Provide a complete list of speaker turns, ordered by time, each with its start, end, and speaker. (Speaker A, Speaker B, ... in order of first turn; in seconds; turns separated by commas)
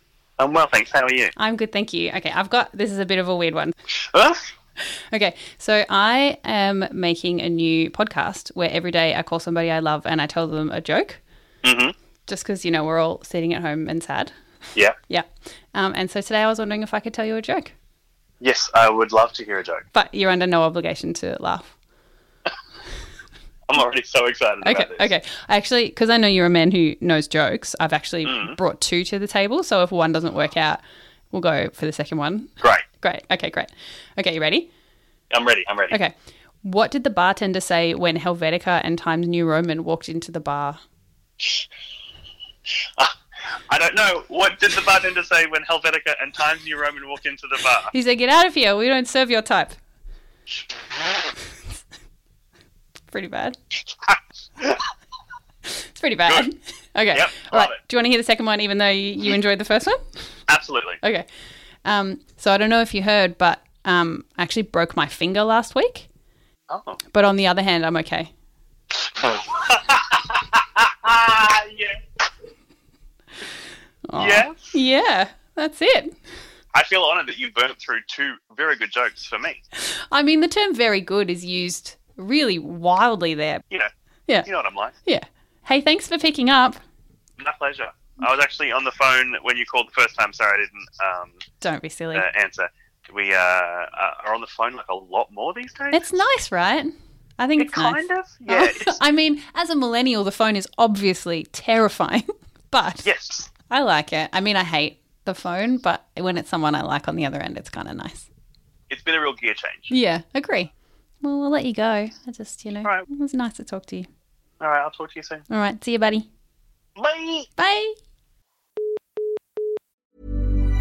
Speaker A: 0.4-1.3, Speaker B: 1.4-3.7, Speaker A: 4.1-4.5, Speaker B: 5.1-11.2, Speaker A: 11.6-11.9, Speaker B: 12.3-14.3, Speaker B: 15.1-17.7, Speaker A: 18.4-19.8, Speaker B: 19.9-21.7, Speaker A: 23.7-25.1, Speaker B: 24.6-30.8, Speaker A: 28.2-28.6, Speaker B: 31.3-34.7, Speaker A: 35.3-36.0, Speaker B: 35.9-40.8, Speaker A: 43.7-47.9, Speaker B: 47.9-49.7, Speaker B: 53.1-53.6, Speaker A: 54.0-54.8, Speaker B: 55.7-60.0, Speaker A: 57.1-57.7, Speaker A: 60.5-61.0, Speaker B: 61.0-61.3, Speaker B: 61.8-66.1, Speaker A: 66.7-67.0, Speaker B: 67.1-68.3, Speaker A: 68.9-72.0, Speaker B: 74.1-76.1, Speaker A: 74.2-74.8, Speaker A: 76.7-79.6, Speaker B: 79.8-83.6, Speaker A: 84.4-84.9, Speaker B: 85.0-86.8, Speaker A: 87.4-91.4, Speaker B: 91.6-92.2, Speaker A: 92.1-96.2, Speaker B: 95.9-103.0, Speaker A: 97.6-99.0, Speaker A: 103.0-103.5, Speaker B: 103.7-108.3, Speaker A: 108.9-109.9, Speaker B: 109.9-110.7, Speaker B: 111.2-114.1, Speaker A: 114.6-115.4, Speaker B: 115.5-116.3, Speaker A: 117.0-117.5, Speaker B: 117.6-118.0